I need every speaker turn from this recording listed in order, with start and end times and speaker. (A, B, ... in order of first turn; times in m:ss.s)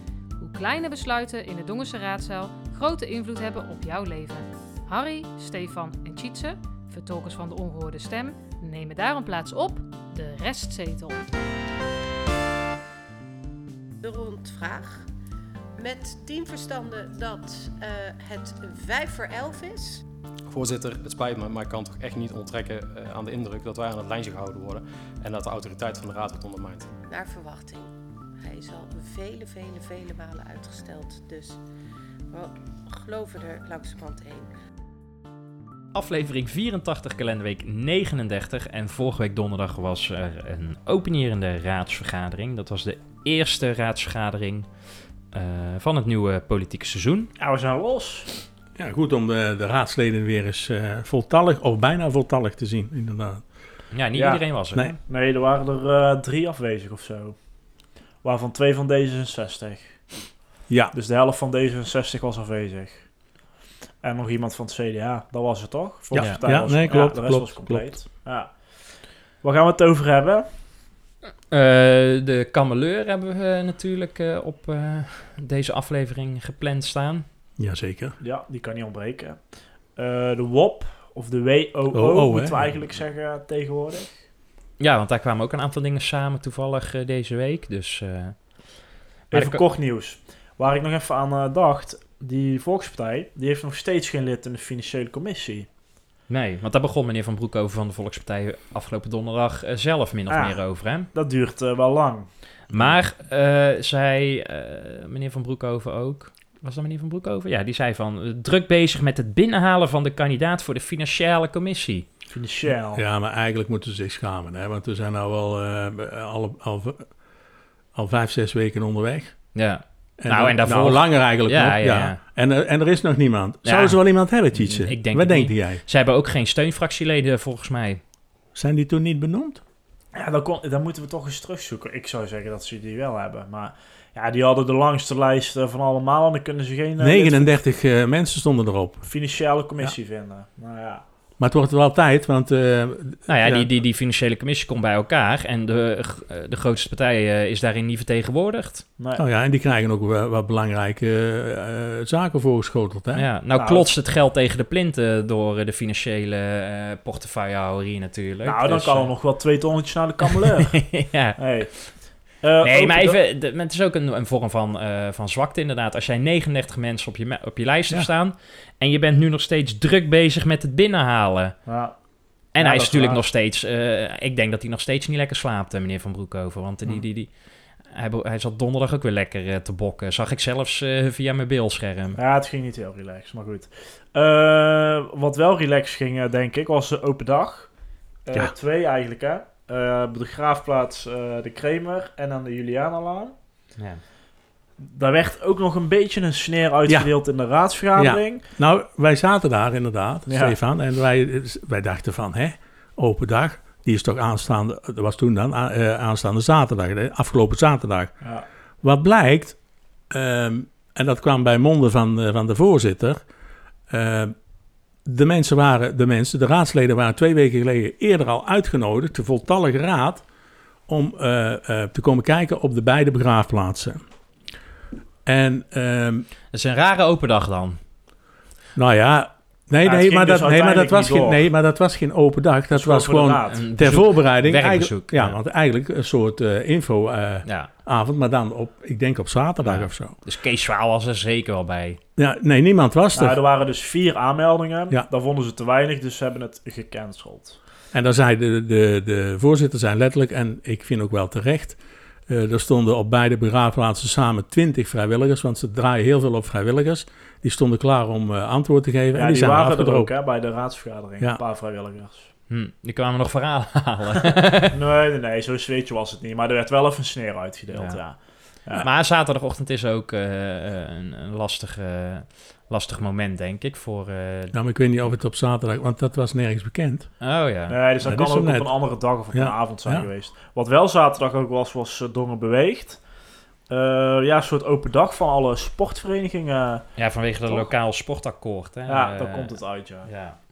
0:00.4-0:11.2 A
0:14.0-0:15.1 B
0:15.8-0:20.0 B
0:20.5-0:26.9 C
0:27.1-0:31.6 B
0:32.3-0:34.5 B
0:35.9-0:44.7 D
0:45.3-0:47.3 D
0:47.4-0:48.3 E
0:48.8-0:53.5 F
0:53.9-0:55.0 D
0:54.1-0:54.4 E
0:55.0-0:57.4 E
0:58.2-1:00.3 E
1:00.7-1:00.9 F
1:00.9-1:03.1 E
1:04.0-1:08.7 E
1:06.1-1:07.9 F
1:06.2-1:06.4 D
1:09.4-1:10.4 E
1:11.5-1:17.2 D
1:17.6-1:18.2 F
1:18.2-1:24.3 E
1:21.9-1:22.9 F
1:24.8-1:29.6 D
1:29.3-1:35.7 E
1:36.3-1:41.1 D
1:40.3-1:42.3 E
1:42.7-1:52.1 D
1:52.3-1:53.0 E
1:52.7-1:57.2 F
1:57.9-1:59.7 F
1:59.5-2:02.2 D
2:00.2-2:05.8 F
2:03.6-2:08.0 D
2:08.5-2:09.6 F
2:10.1-2:17.6 E
2:17.0-2:19.1 F
2:19.0-2:21.0 E
2:21.4-2:23.7 F
2:23.3-2:28.8 D
2:29.0-2:29.2 E
2:29.2-2:33.3 F
2:33.1-2:39.2 D
2:33.5-2:33.9 E
2:38.4-2:43.2 E
2:40.3-2:42.0 D
2:42.6-2:51.6 D
2:51.6-2:53.2 E
2:52.5-2:57.3 D
2:57.8-3:02.2 D
3:02.2-3:07.7 E
3:08.2-3:13.3 E
3:13.8-3:14.0 D
3:14.8-3:18.4 E
3:16.9-3:17.1 F
3:17.9-3:28.3 F
3:20.3-3:20.6 E
3:28.2-3:28.5 E
3:28.8-3:33.2 F
3:33.9-3:34.3 F
3:35.0-3:40.3 F
3:40.9-3:44.0 F
3:45.2-3:46.2 F
3:46.5-3:47.8 D
3:48.7-4:00.2 F
3:49.8-3:51.4 E
3:52.7-3:53.6 E
3:53.5-3:55.4 D
3:57.4-3:57.7 D
3:59.6-4:02.0 D
4:02.2-4:03.4 F
4:03.2-4:07.6 E
4:07.9-4:20.1 F
4:19.1-4:22.3 E
4:22.5-4:24.7 D
4:24.7-4:28.8 E
4:27.7-4:34.5 D
4:34.5-4:37.1 F
4:37.2-4:37.7 D
4:37.7-4:43.0 E
4:38.0-4:40.1 F
4:43.7-4:46.9 E
4:47.0-4:50.4 D
4:48.9-4:50.1 E